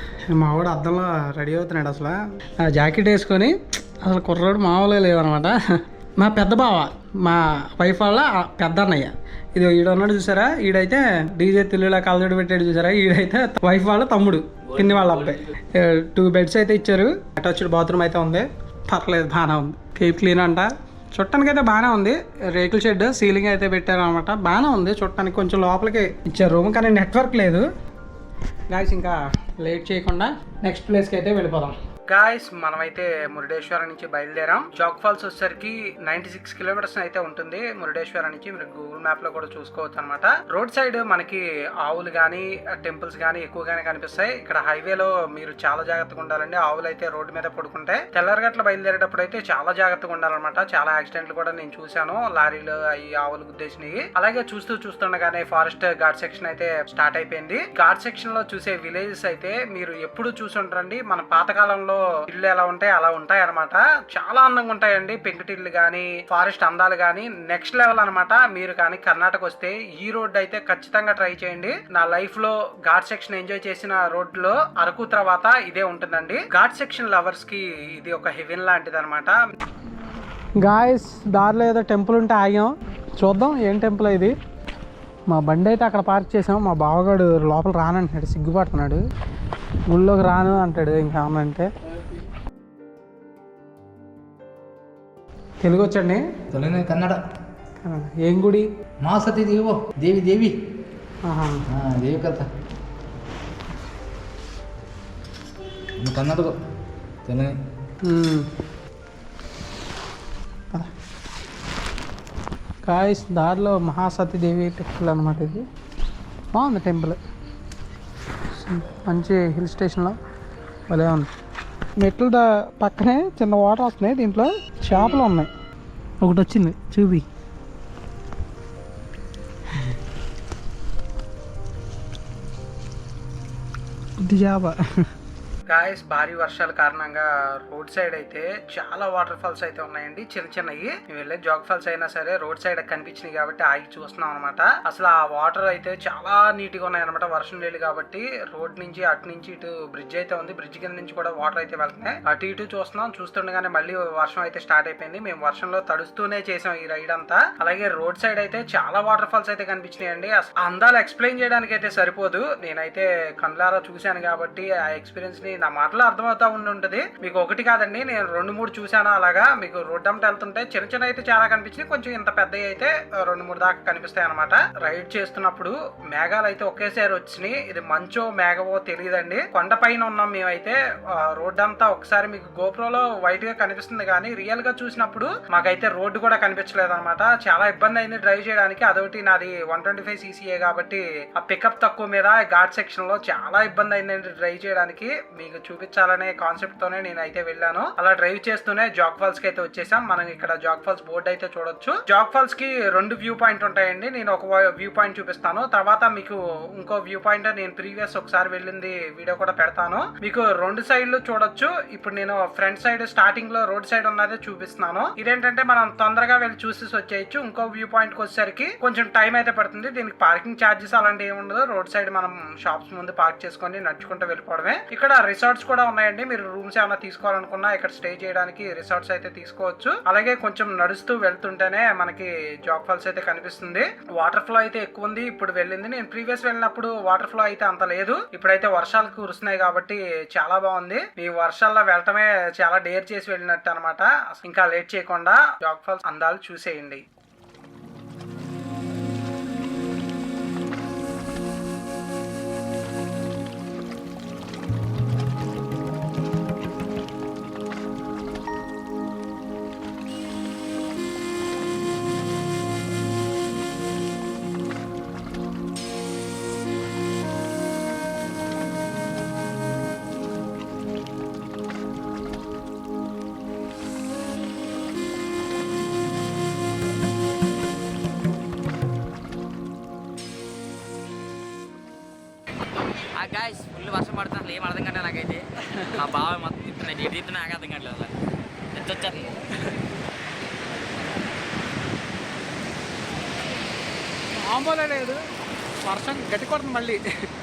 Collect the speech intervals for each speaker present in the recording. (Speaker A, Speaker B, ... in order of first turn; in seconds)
Speaker A: 0.3-5.5, 6.2-27.6, 28.7-79.4, 80.6-84.3, 85.3-89.0, 89.9-91.7, 95.6-96.2, 97.8-98.7, 101.2-101.7, 108.0-108.5, 112.8-115.7, 116.5-117.2, 118.5-120.2, 120.9-121.3, 122.0-125.5, 126.2-127.2, 129.7-130.0, 134.2-134.8, 135.7-247.0, 285.6-286.0, 294.4-295.2, 295.9-297.0
Speaker B: 96.5-97.2, 99.0-100.6, 101.7-102.5, 106.0-106.5, 107.2-107.6
Speaker C: 283.2-288.1, 288.7-289.4